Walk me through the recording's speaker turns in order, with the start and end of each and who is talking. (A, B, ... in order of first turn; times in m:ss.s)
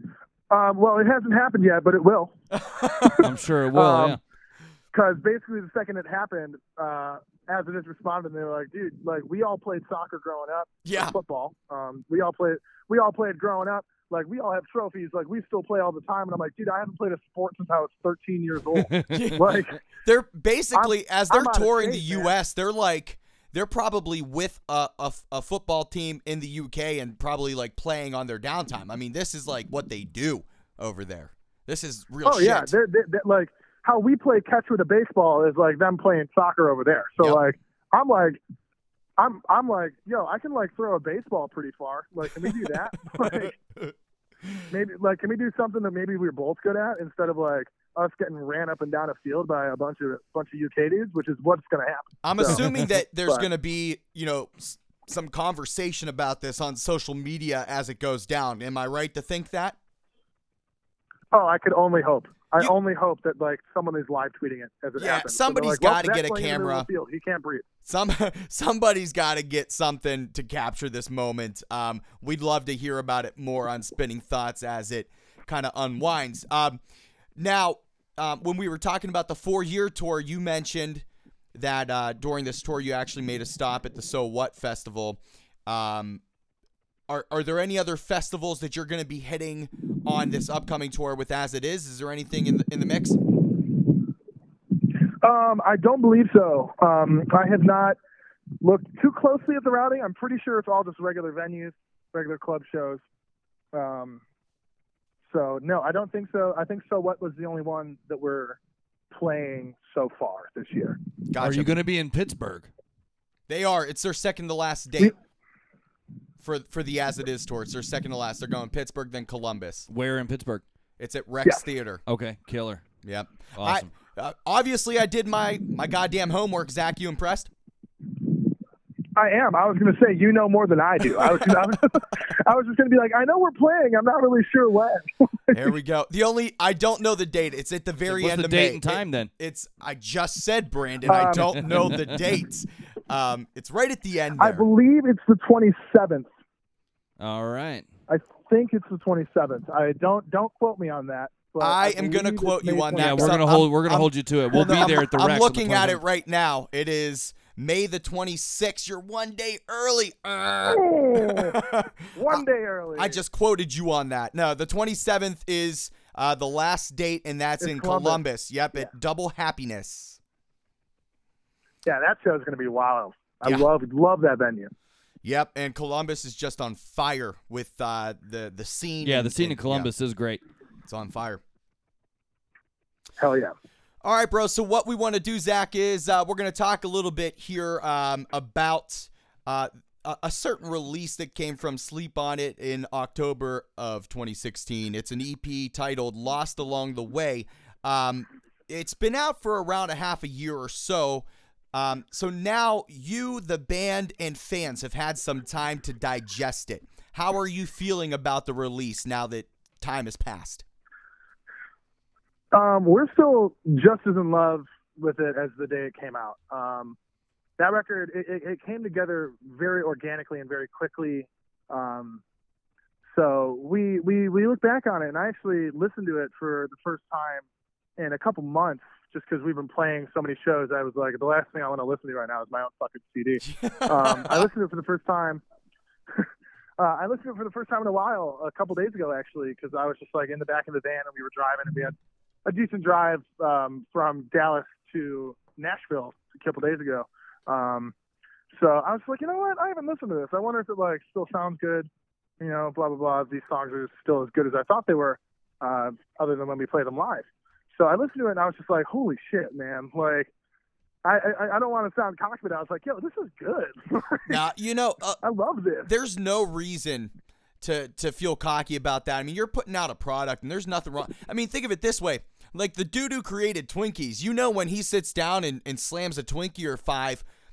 0:00.5-0:02.3 A
0:02.5-0:03.3 B
0:03.2-0:04.2 C
0:03.7-0:04.2 A
0:04.9-0:19.8 A
0:10.8-0:11.2 B
0:18.9-0:19.2 C
0:19.1-0:32.7 B
0:20.7-0:22.3 A
0:32.2-0:38.4 A
0:39.2-0:43.6 A
0:43.2-0:43.9 B
0:44.7-0:52.6 A
0:52.2-0:59.8 B
0:52.4-0:52.8 C
1:01.3-1:07.6 A
1:05.0-1:06.9 B
1:07.8-1:16.8 B
1:17.4-1:26.2 B
1:27.1-1:33.2 B
1:35.2-1:38.0 A
1:38.6-1:43.0 A
1:43.7-1:44.2 A
1:45.3-1:48.6 A
1:49.1-1:51.0 A
1:51.3-1:51.7 B
1:51.4-1:52.7 C
1:53.5-1:55.1 B
1:56.4-1:59.9 B
1:59.9-2:00.6 C
2:01.0-2:02.0 B
2:02.1-2:02.8 C
2:03.0-2:07.5 B
2:03.6-2:03.9 C
2:09.2-2:15.6 A
2:15.5-2:24.6 B
2:18.1-2:19.3 C
2:21.1-2:21.5 A
2:21.4-2:22.0 C
2:24.4-2:26.3 A
2:27.2-2:27.8 C
2:28.1-2:33.4 A
2:31.6-2:50.2 B
2:32.9-2:36.0 C
2:40.7-2:43.2 A
2:47.6-2:48.2 A
2:51.8-2:54.7 A
2:55.2-2:59.9 B
2:59.0-3:00.4 C
3:00.9-3:01.4 B
3:03.2-3:03.5 A
3:04.0-3:30.6 B
3:32.5-3:37.0 A
3:37.6-3:42.2 A
3:43.1-3:47.4 A
3:48.0-3:55.4 A
3:53.4-3:54.5 B
3:56.8-4:07.9 A
4:08.5-4:11.9 A
4:12.4-4:20.3 A
4:21.0-4:24.4 A
4:24.3-4:25.2 B
4:25.2-4:25.9 A
4:25.8-4:37.2 B